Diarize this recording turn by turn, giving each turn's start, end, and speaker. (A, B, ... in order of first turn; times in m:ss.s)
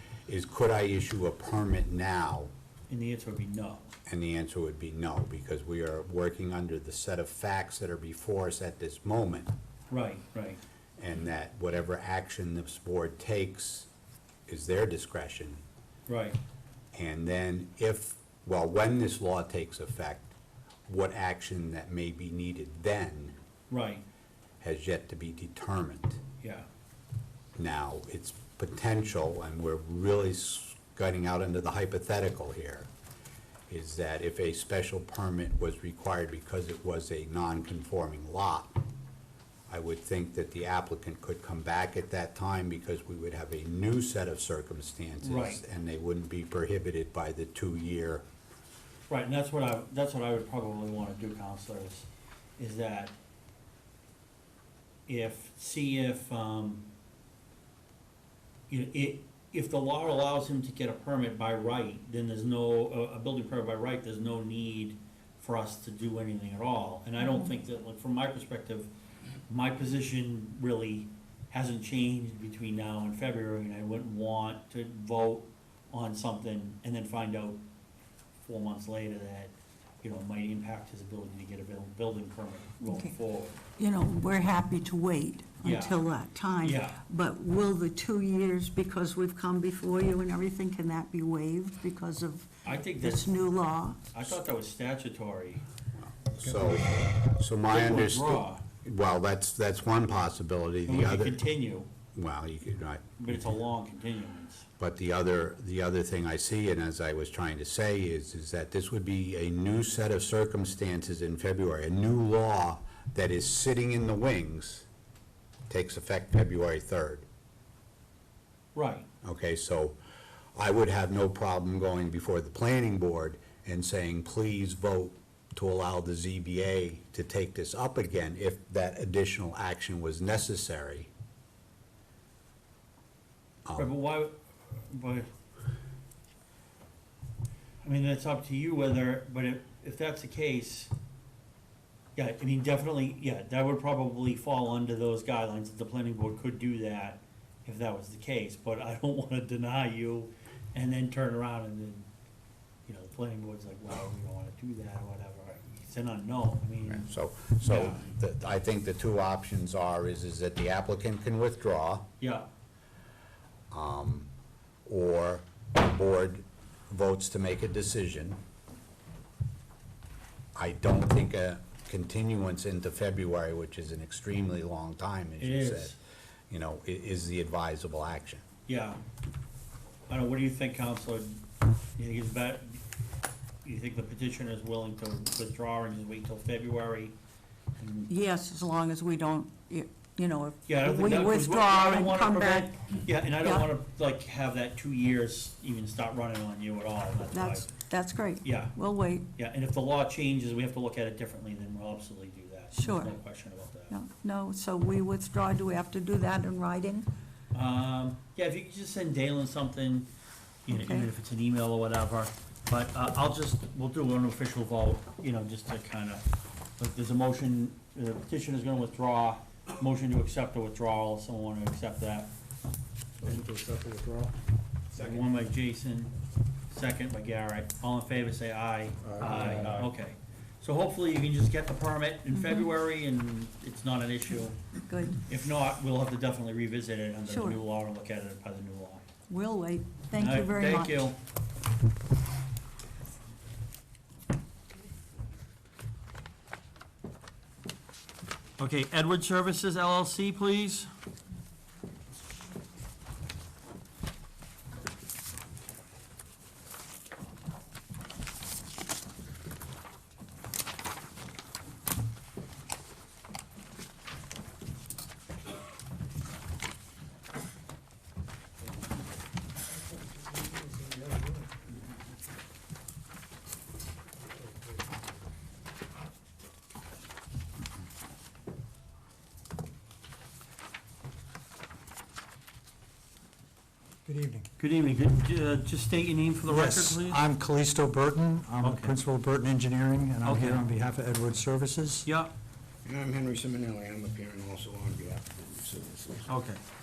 0:00.3-0:02.5 A
0:02.9-0:03.9 B
0:04.1-0:09.5 A
0:09.9-0:10.6 B
0:11.0-0:13.9 A
0:14.5-0:15.6 A
0:16.1-0:16.4 B
0:16.9-0:20.3 A
0:20.9-0:23.4 A
0:23.7-0:24.0 B
0:24.6-0:26.2 A
0:26.4-0:26.7 B
0:27.6-0:32.9 A
0:33.7-0:38.7 A
0:39.7-0:48.2 A
0:45.2-0:45.6 B
0:49.1-0:53.2 B
0:55.1-0:56.9 B
0:58.7-1:08.9 B
1:09.5-1:17.6 B
1:18.4-1:23.6 B
1:22.8-1:23.1 C
1:23.8-1:34.1 C
1:25.6-1:26.0 B
1:26.6-1:27.0 B
1:32.6-1:33.3 B
1:34.1-1:35.6 B
1:36.0-1:41.4 A
1:37.7-1:38.6 B
1:40.8-1:41.9 B
1:42.2-1:43.5 A
1:43.2-1:44.7 B
1:44.8-1:54.9 A
1:55.7-1:57.2 A
1:58.8-1:59.1 B
1:59.2-2:00.0 A
2:00.6-2:11.1 A
2:13.7-2:13.9 A
2:13.8-2:15.3 B
2:17.8-2:20.9 B
2:22.2-2:32.1 B
2:32.9-2:37.1 B
2:36.9-2:42.1 A
2:37.6-2:38.0 B
2:42.2-2:42.4 B
2:43.7-2:44.3 A
2:44.9-2:48.4 A
2:50.6-2:56.0 A
2:55.4-2:56.0 B
2:56.5-2:58.4 A
2:58.7-2:59.0 B
3:00.1-3:01.4 B
3:02.0-3:02.8 B
3:03.6-3:07.2 B
3:07.8-3:08.1 B
3:08.1-3:12.7 C
3:10.7-3:17.7 B
3:13.4-3:13.7 C
3:17.3-3:19.3 C
3:18.4-3:18.8 B
3:19.4-3:24.0 B
3:22.8-3:23.1 C
3:23.9-3:27.1 C
3:27.5-3:30.1 B
3:30.7-3:31.1 C
3:30.7-3:36.2 B
3:36.8-3:42.3 B
3:43.2-3:44.1 B
3:44.9-3:46.2 B
3:46.7-3:54.7 B
3:49.1-3:49.9 D
3:52.3-3:52.7 C
3:54.8-3:55.2 C
3:55.2-3:59.0 B
3:57.3-3:57.6 C
3:59.3-4:01.0 C
4:00.2-4:01.2 B
4:08.6-4:10.9 B
4:44.1-4:44.5 E
4:44.6-4:47.2 B
4:46.5-4:52.1 E
4:48.6-4:49.0 B
4:50.2-4:50.7 B
4:52.0-4:52.3 B
4:52.8-4:56.3 D
4:56.3-4:56.6 B